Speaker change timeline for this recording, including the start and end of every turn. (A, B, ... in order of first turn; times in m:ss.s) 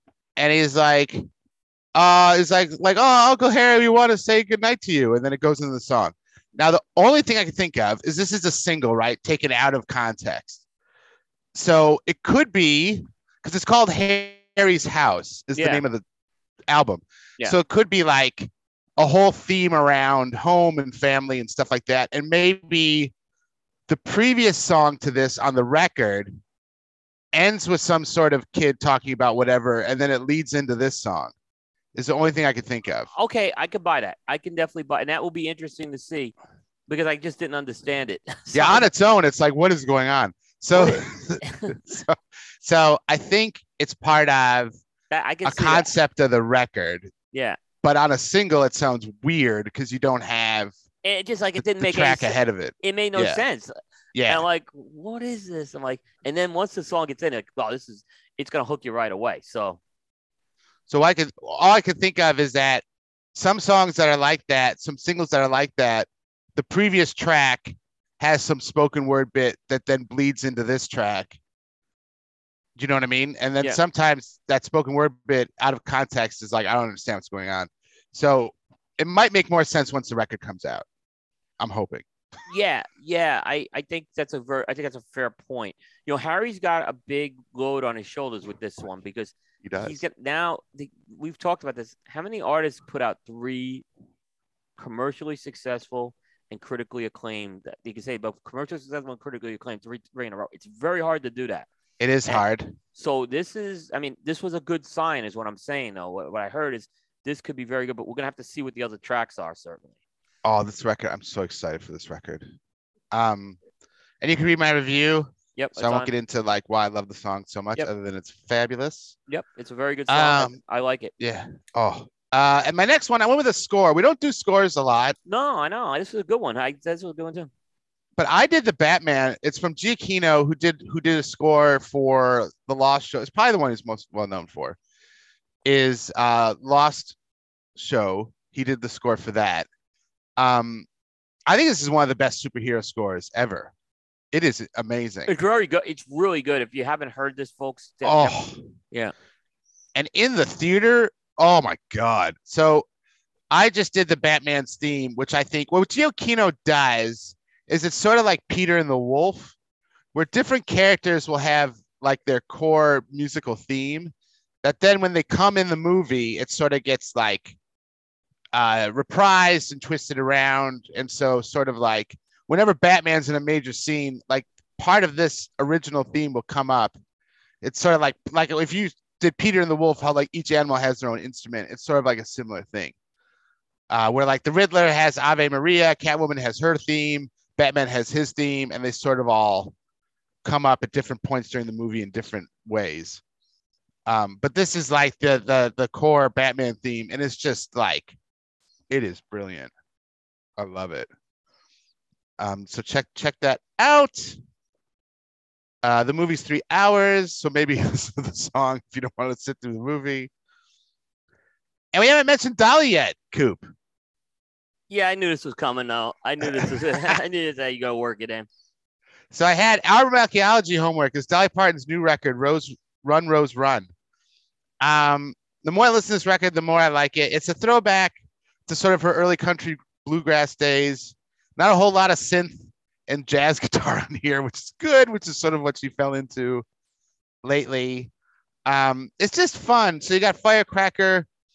0:00.4-0:01.2 A
0:01.9-0:10.6 A
0:11.5-0:16.0 A
0:15.5-0:15.8 B
0:16.7-0:23.1 A
0:23.9-0:26.4 A
0:27.3-0:31.3 A
0:31.9-0:33.1 A
0:33.1-0:36.3 B
0:36.9-0:38.9 B
0:38.5-0:44.7 A
0:40.7-0:41.7 B
0:45.1-0:45.9 B
0:45.4-0:47.1 A
0:47.3-0:47.6 B
0:47.8-0:50.7 A
0:51.0-0:53.7 B
0:51.6-0:53.4 A
0:54.1-0:54.4 A
0:54.3-0:59.8 B
1:00.9-1:11.4 A
1:12.8-1:20.8 A
1:21.6-1:22.0 A
1:22.5-1:33.8 B
1:29.6-1:30.0 A
1:34.8-1:41.7 B
1:42.0-1:42.7 A
1:42.2-1:49.9 B
1:50.4-1:52.5 A
1:53.1-1:53.6 A
1:54.2-1:59.2 A
1:55.6-1:56.1 B
1:59.3-2:01.1 B
2:00.1-2:00.6 A
2:01.2-2:05.2 A
2:05.2-2:07.5 B
2:08.2-2:14.8 A
2:15.6-2:17.2 A
2:17.8-2:19.7 A
2:20.4-2:20.9 A
2:21.5-2:23.7 A
2:24.3-2:25.3 A
2:25.3-2:28.3 B
2:28.0-2:28.6 A
2:29.9-2:32.8 A
2:33.5-2:39.5 A
2:40.1-2:47.6 A
2:48.5-2:57.0 A
2:57.6-3:02.9 A
3:03.9-3:09.7 A
3:10.4-3:13.2 A
3:14.0-3:18.2 A
3:18.9-3:19.7 A
3:20.6-3:21.1 A
3:22.4-3:24.4 A
3:25.8-3:30.3 A
3:31.9-3:33.7 A
3:34.9-3:38.5 B
3:36.4-3:37.2 A
3:39.3-3:43.9 A
3:44.8-3:56.6 A
3:57.4-3:58.1 A
3:58.6-4:01.3 A